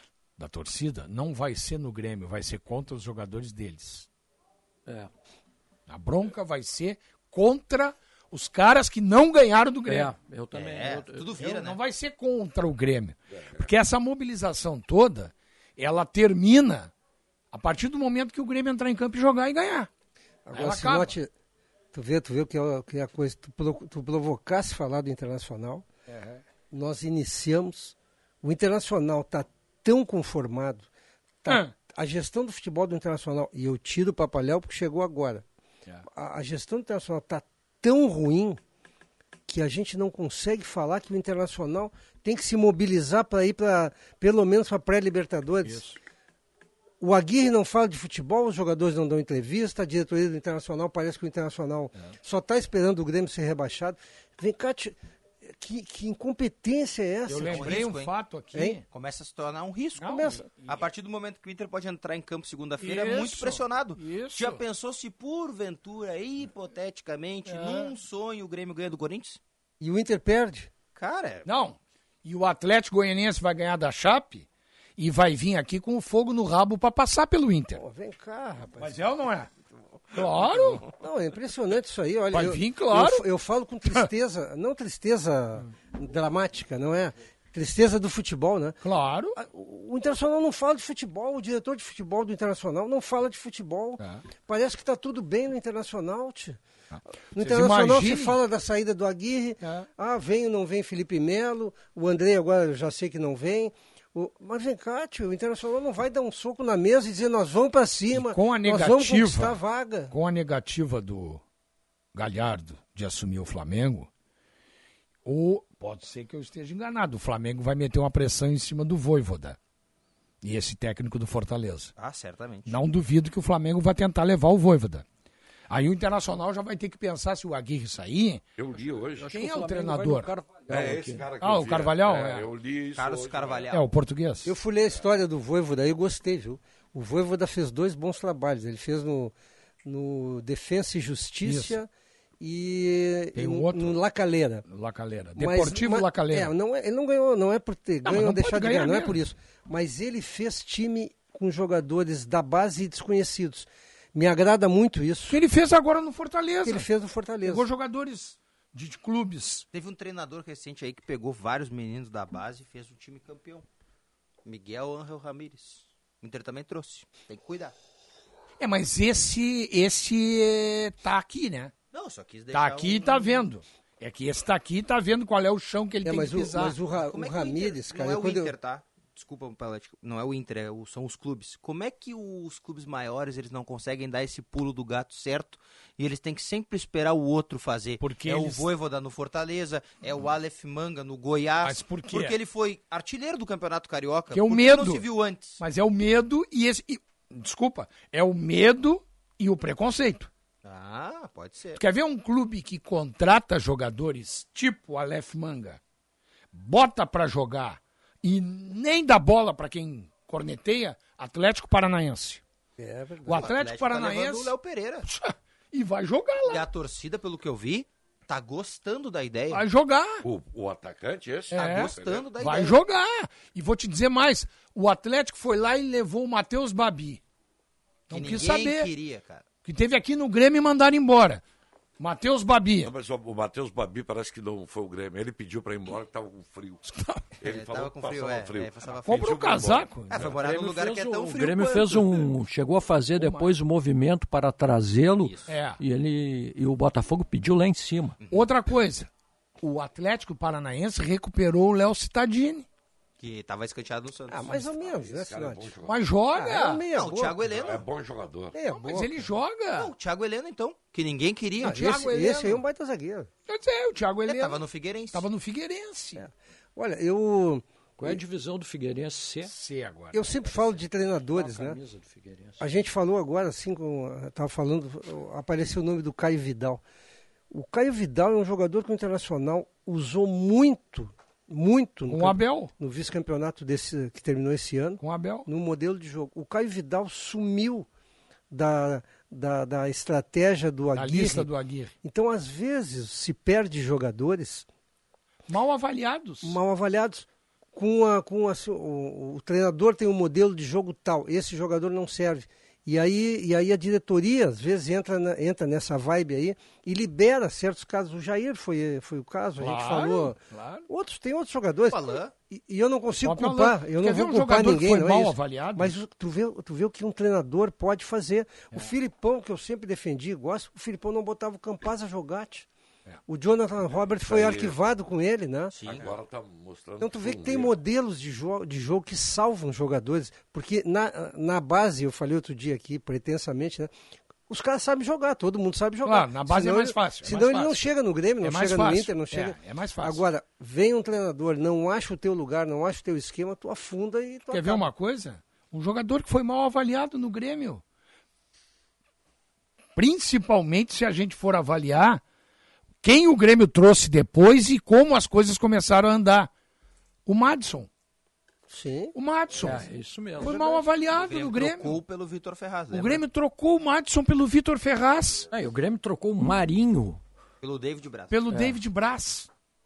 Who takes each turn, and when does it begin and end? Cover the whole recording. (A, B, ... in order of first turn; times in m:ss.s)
0:00.4-0:04.1 A
0:04.9-0:05.1 B
0:05.9-0:10.1 A
0:09.9-0:11.4 B
0:10.5-0:11.8 C
0:11.4-0:16.9 A
0:13.3-0:13.7 D
0:17.5-0:19.9 A
0:20.5-0:21.3 E
0:20.5-0:21.2 A
0:21.9-0:25.9 E
0:26.1-0:26.4 A
0:26.7-0:30.9 E
0:31.4-0:35.4 E
0:31.5-0:31.7 A
0:36.1-0:38.6 E
0:39.5-0:45.8 E
0:47.0-0:55.0 E
0:55.5-0:57.8 E
0:57.3-0:58.8 A
0:57.5-0:58.1 C
0:58.5-0:58.8 E
0:58.9-1:09.4 C
1:00.0-1:00.8 A
1:00.1-1:00.5 E
1:02.8-1:04.6 A
1:07.5-1:07.9 A
1:09.8-1:10.7 E
1:11.0-1:11.5 C
1:11.5-1:17.8 A
1:17.7-1:19.0 E
1:18.8-1:19.5 A
1:20.1-1:20.9 A
1:20.9-1:28.8 E
1:22.3-1:23.3 A
1:23.8-1:24.1 A
1:28.8-1:29.4 A
1:29.4-1:36.6 E
1:36.9-1:38.4 A
1:37.3-1:50.1 E
1:39.6-1:39.9 A
1:48.1-1:51.4 A
1:52.2-1:54.1 A
1:55.2-1:59.6 A
2:00.4-2:01.9 A
2:02.0-2:02.8 C
2:02.7-2:05.0 A
2:05.7-2:08.4 A
2:08.6-2:09.4 D
2:09.2-2:11.3 B
2:09.3-2:10.3 A
2:10.7-2:13.7 D
2:11.4-2:12.5 A
2:13.0-2:13.8 C
2:13.7-2:14.5 A
2:14.4-2:21.9 E
2:21.4-2:21.8 A
2:22.4-2:24.7 E
2:23.4-2:24.0 A
2:24.7-2:26.5 A
2:25.4-2:35.4 E
2:28.0-2:29.2 A
2:35.3-2:36.9 A
2:36.6-2:37.7 E
2:37.4-2:39.7 A
2:39.7-2:43.7 C
2:44.4-2:47.7 C
2:48.6-2:51.7 A
2:51.9-2:53.5 C
2:52.5-2:56.8 A
2:56.0-2:58.5 E
2:57.1-3:15.6 C
3:08.0-3:08.7 A
3:11.6-3:12.4 A
3:14.3-3:15.1 A
3:15.6-3:20.3 A
3:20.6-3:21.8 C
3:21.8-3:25.8 A
3:26.5-3:32.4 A
3:32.8-3:33.5 E
3:33.2-3:34.5 A
3:33.3-3:35.1 C
3:35.0-3:36.6 A
3:36.5-3:39.6 C
3:39.5-3:40.2 A
3:40.2-3:42.3 D
3:41.5-3:47.2 A
3:41.5-3:42.8 C
3:48.1-3:48.9 A
3:48.1-3:49.4 C
3:49.6-3:51.4 A
3:52.0-3:52.9 A
3:52.8-3:56.8 D
3:56.8-3:57.3 A
3:57.4-4:00.4 D
3:57.4-4:02.3 C
3:59.1-4:00.3 A
4:00.4-4:08.2 B
4:03.2-4:03.5 A
4:05.2-4:05.5 C
4:05.5-4:05.8 A
4:08.3-4:09.1 A
4:09.6-4:12.7 A
4:13.2-4:15.0 C
4:14.3-4:15.7 E
4:15.0-4:16.0 D
4:15.8-4:16.9 A
4:16.3-4:17.4 E
4:16.9-4:17.8 C
4:17.4-4:18.6 D
4:18.5-4:19.2 E
4:18.8-4:19.9 A
4:19.8-4:21.9 C
4:21.6-4:23.3 E
4:21.6-4:22.6 A
4:23.5-4:26.2 A
4:24.3-4:25.2 C
4:26.2-4:28.2 E
4:28.0-4:29.5 B
4:29.4-4:30.6 A
4:30.1-4:31.8 E
4:31.3-4:32.6 B
4:32.6-4:36.8 E
4:37.5-4:47.9 E
4:42.1-4:42.7 A
4:45.0-4:45.5 A
4:48.5-4:51.5 E
4:51.0-4:51.9 A
4:52.0-4:54.7 E
4:55.5-4:56.6 A
4:56.4-5:10.4 E
5:09.6-5:10.9 A
5:10.9-5:22.7 E
5:11.9-5:12.3 C
5:13.2-5:16.0 A
5:23.3-5:25.8 E
5:24.2-5:24.8 D
5:25.7-5:26.1 C
5:25.8-5:27.8 D
5:27.0-5:33.9 E
5:34.5-5:44.9 E
5:36.0-5:37.9 A
5:38.4-5:40.2 A
5:44.5-5:47.8 A
5:50.0-5:52.2 A
5:53.0-5:56.5 A
5:57.3-5:57.9 A
5:58.7-5:59.2 E
5:59.2-5:59.9 A
5:59.6-6:00.6 B
6:00.4-6:02.0 A
6:00.4-6:00.9 E
6:01.2-6:03.2 C
6:02.9-6:05.5 A
6:05.5-6:07.2 B
6:07.6-6:08.4 C
6:08.3-6:09.5 A